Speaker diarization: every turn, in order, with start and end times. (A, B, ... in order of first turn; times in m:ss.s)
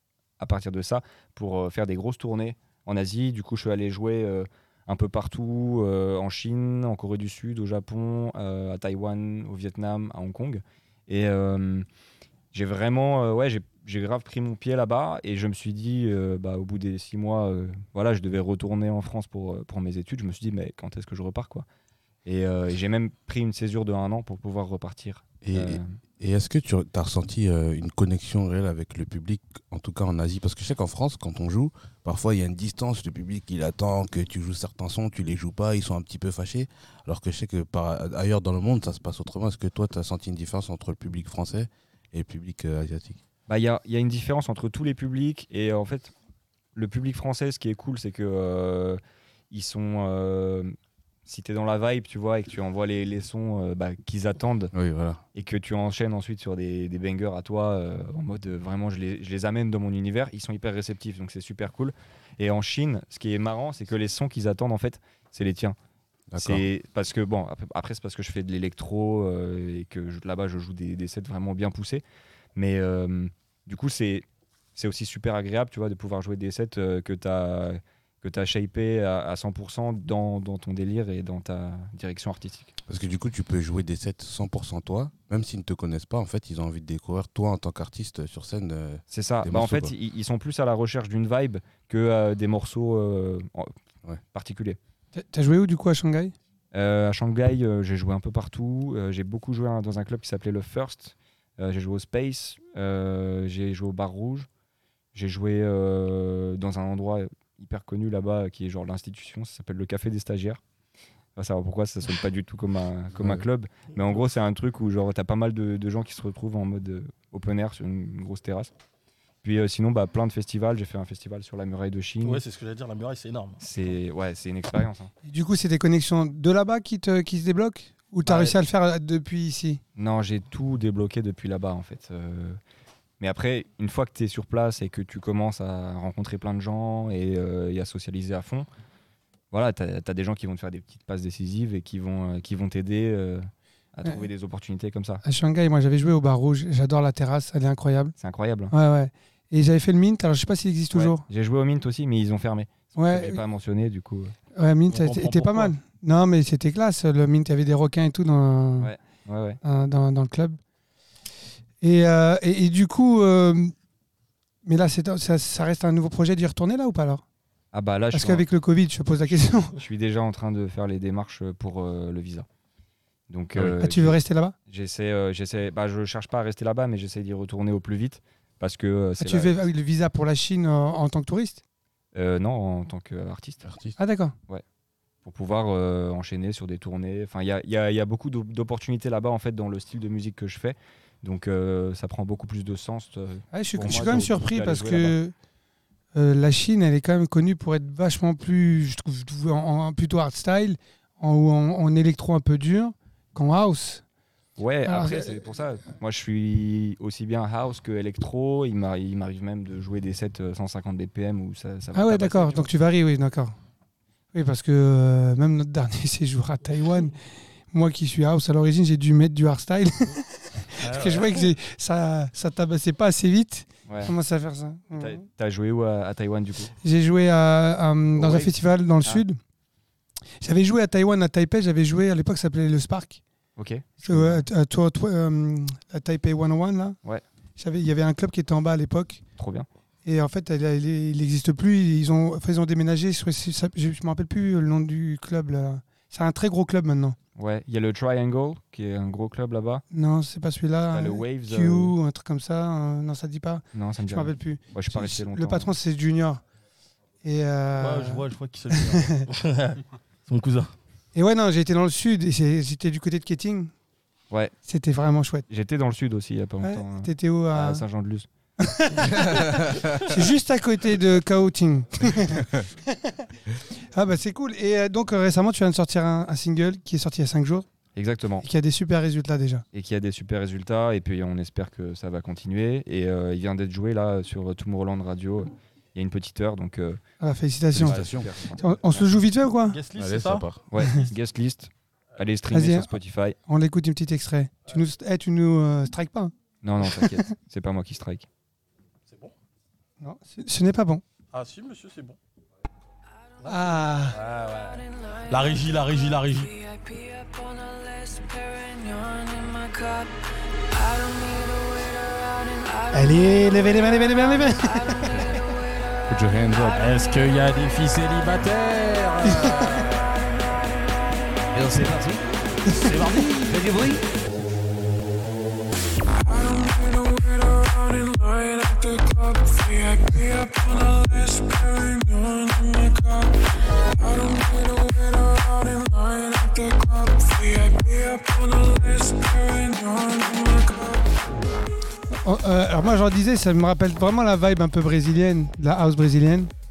0:00.4-0:11.9 A
0:12.5-0:21.7 A
0:22.3-0:25.9 A
0:25.4-0:43.2 B
0:43.5-0:46.1 A
0:46.8-0:49.0 A
0:49.5-0:50.8 A
0:51.3-0:54.7 A
0:54.7-0:55.2 B
0:55.4-1:05.8 A
1:06.3-1:06.6 B
1:06.4-1:12.0 A
1:12.6-1:14.2 A
1:14.8-1:22.7 A
1:22.9-1:29.9 B
1:29.1-1:33.7 A
1:34.3-1:34.8 A
1:35.2-1:36.3 C
1:36.7-1:44.5 A
1:45.2-1:50.6 A
1:51.4-1:58.7 A
1:53.2-1:53.4 B
1:59.4-2:02.4 A
2:02.2-2:03.6 D
2:03.6-2:05.1 A
2:05.2-2:09.8 C
2:08.2-2:08.6 A
2:10.0-2:12.6 A
2:13.2-2:18.7 A
2:19.5-2:25.2 A
2:25.2-2:28.1 C
2:28.2-2:28.7 A
2:28.7-2:31.2 C
2:30.9-2:34.4 A
2:33.0-2:33.4 C
2:34.6-2:38.9 C
2:34.9-2:35.7 D
2:38.8-2:39.6 A
2:39.6-2:40.6 C
2:41.8-2:43.7 C
2:44.7-2:47.2 C
2:47.7-2:48.5 A
2:48.1-2:49.8 C
2:49.2-2:52.5 A
2:53.3-2:54.2 A
2:53.6-2:54.6 C
2:54.7-2:59.6 A
2:59.2-3:01.6 C
3:02.1-3:03.6 A
3:03.6-3:04.0 B
3:04.0-3:04.4 C
3:05.2-3:15.1 A
3:13.5-3:15.3 C
3:16.2-3:24.0 C
3:24.6-3:32.7 A
3:24.8-3:25.3 C
3:31.9-3:33.6 C
3:34.3-3:37.2 C
3:37.7-3:45.2 C
3:40.8-3:41.4 D
3:43.9-3:44.1 A
3:44.9-3:46.7 A
3:46.8-3:49.4 C
3:48.2-3:48.5 A
3:50.4-3:53.2 C
3:53.6-3:54.4 A
3:54.0-3:57.0 C
3:57.6-3:59.2 C
3:59.4-3:59.7 A
4:00.0-4:07.2 C
4:07.4-4:09.8 A
4:09.9-4:16.4 C
4:10.9-4:11.9 A
4:13.7-4:15.7 A
4:17.2-4:19.2 C
4:17.8-4:20.8 D
4:21.2-4:23.7 C
4:24.7-4:25.4 C
4:25.5-4:28.3 A
4:26.6-4:27.8 C
4:28.6-4:33.2 C
4:29.3-4:29.7 B
4:33.9-4:37.7 C
4:38.0-4:38.5 A
4:38.4-4:39.6 C
4:39.7-4:47.0 A
4:47.2-4:48.0 C
4:47.7-4:48.3 B
4:47.7-4:49.0 A
4:48.6-4:49.8 C
4:49.7-4:50.5 D
4:50.0-4:50.6 B
4:50.7-4:53.4 A
4:52.5-4:52.9 C
4:53.5-4:56.3 C
4:56.6-4:58.3 A
4:59.1-4:59.3 D
5:00.0-5:01.0 C
5:01.3-5:02.2 D
5:03.5-5:04.2 C
5:04.1-5:04.8 D
5:04.7-5:05.5 E
5:05.3-5:06.5 D
5:06.5-5:10.2 E
5:10.7-5:13.9 E
5:12.9-5:15.2 C
5:14.6-5:15.2 E
5:16.1-5:16.8 B
5:16.5-5:17.1 E
5:16.8-5:20.1 D
5:19.2-5:19.7 C
5:21.7-5:22.1 A
5:22.7-5:22.9 C
5:22.8-5:23.7 D
5:23.5-5:24.0 A
5:26.3-5:33.2 E
5:34.0-5:41.0 E
5:41.3-5:41.6 D
5:42.1-5:46.5 C